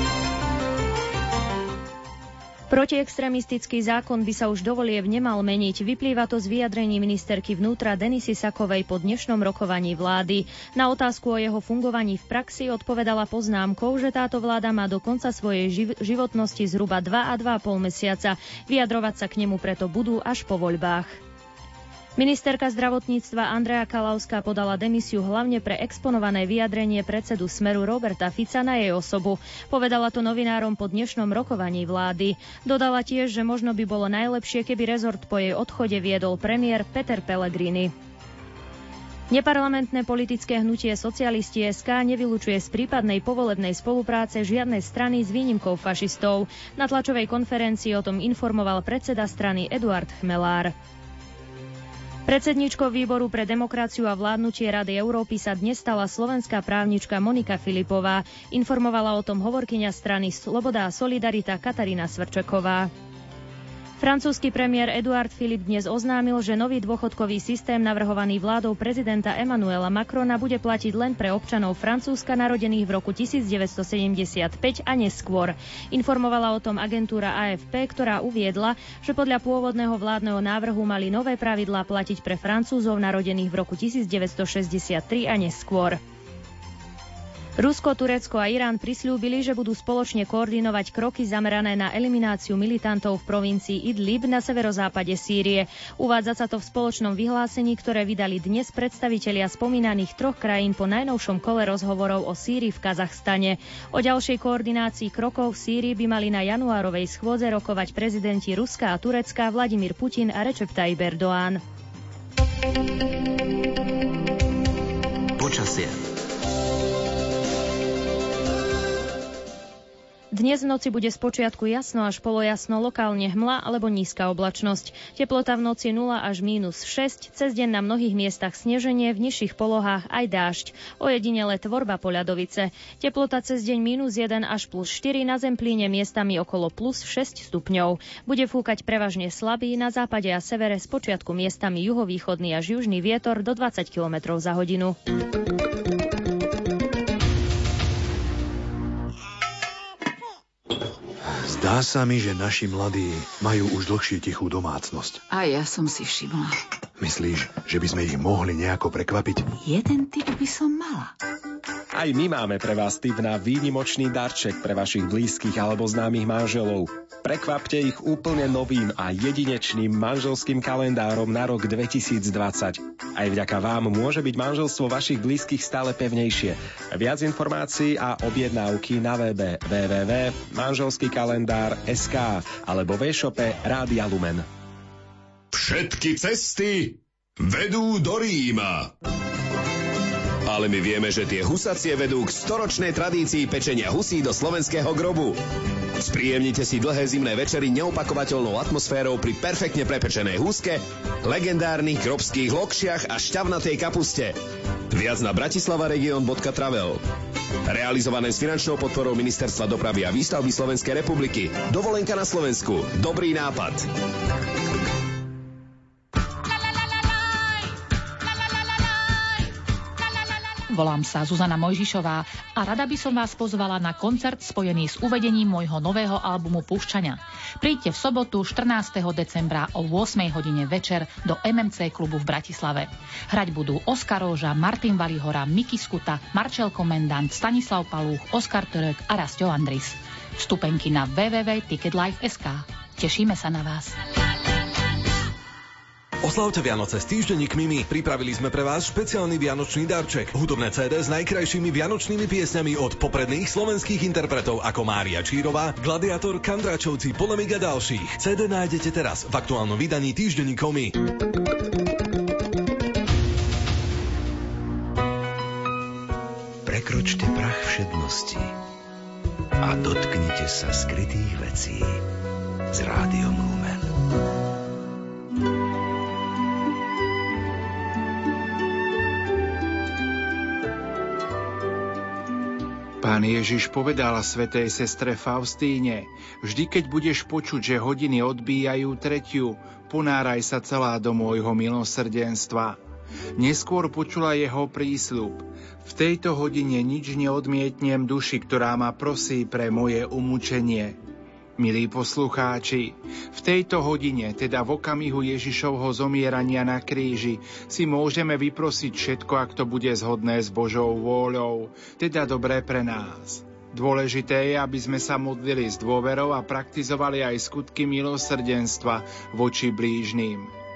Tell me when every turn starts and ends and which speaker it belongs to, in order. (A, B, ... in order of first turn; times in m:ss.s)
0:02.7-0:21.2 A
0:22.2-0:37.9 A
0:39.3-0:50.7 A
0:52.3-1:02.9 A
1:04.0-1:26.0 A
1:27.6-1:51.6 A
1:55.4-1:56.0 B
2:00.3-2:25.0 A
2:31.3-2:35.2 C
2:35.3-2:36.6 D
2:37.0-2:39.5 C
2:39.6-2:41.1 D
2:41.9-3:04.4 E
3:05.5-3:08.9 F
3:10.4-3:15.4 F
3:16.0-3:24.4 F
3:24.9-3:27.0 F
3:27.6-3:33.9 F
3:40.7-4:04.0 G
4:06.2-4:21.0 H
4:26.6-4:28.6 B
4:29.6-4:32.0 B
4:32.7-4:34.0 B
4:43.0-4:52.8 I
4:53.4-5:01.0 I
5:01.6-5:20.5 I